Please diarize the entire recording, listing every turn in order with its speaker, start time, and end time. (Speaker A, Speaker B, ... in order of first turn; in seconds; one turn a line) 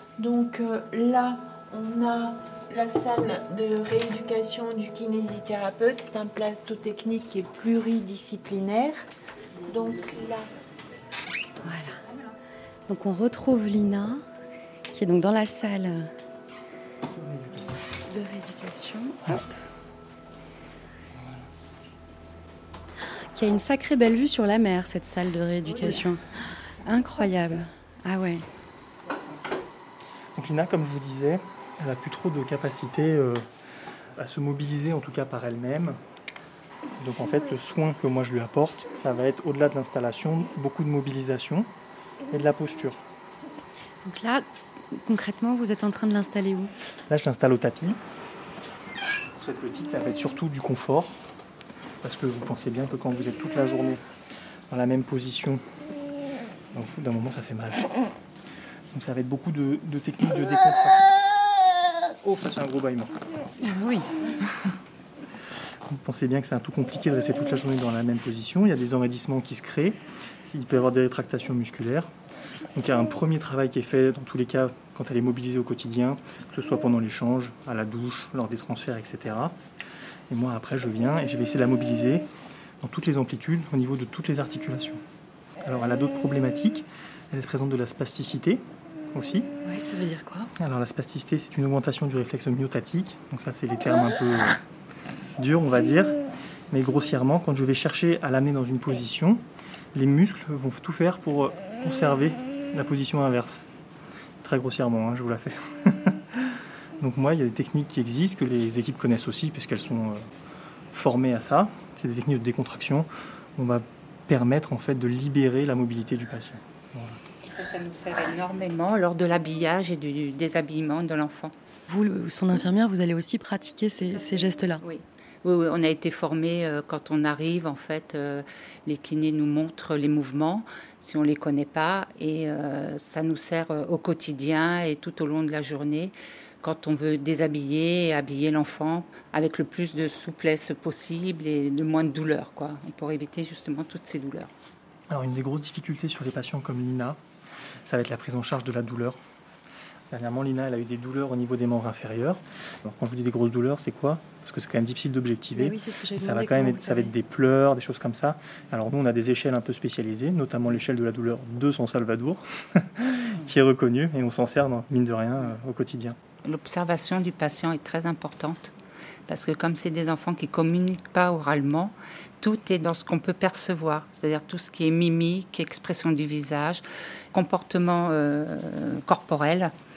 Speaker A: 0.2-9.1
Speaker A: 9.7-10.5
Speaker B: 11.6-12.0
Speaker B: 12.9-14.2
Speaker B: 14.9-16.1
Speaker C: 17.1-17.7
Speaker B: 18.0-19.5
Speaker C: 21.1-21.5
Speaker B: 23.3-26.2
Speaker B: 26.8-28.4
Speaker C: 30.4-33.5
Speaker C: 34.1-36.0
Speaker C: 37.0-41.7
Speaker C: 42.3-43.0
Speaker B: 44.0-46.7
Speaker C: 47.1-48.0
Speaker C: 49.3-51.2
Speaker C: 52.0-54.0
Speaker C: 54.7-55.6
Speaker C: 56.7-57.9
Speaker C: 58.9-61.1
Speaker C: 62.2-63.2
Speaker B: 63.6-64.1
Speaker C: 65.9-72.1
Speaker C: 72.7-79.6
Speaker C: 80.3-82.3
Speaker C: 82.8-85.0
Speaker C: 85.6-89.5
Speaker B: 89.6-90.5
Speaker C: 90.6-94.6
Speaker C: 95.4-96.2
Speaker C: 96.7-103.7
Speaker C: 104.4-110.3
Speaker C: 110.9-117.2
Speaker D: 117.4-121.5
Speaker B: 121.9-124.8
Speaker D: 124.8-144.5
Speaker C: 145.1-147.2
Speaker C: 147.8-149.2
Speaker C: 150.1-166.2
Speaker B: 155.5-157.1
Speaker D: 166.4-168.7
Speaker D: 169.3-179.7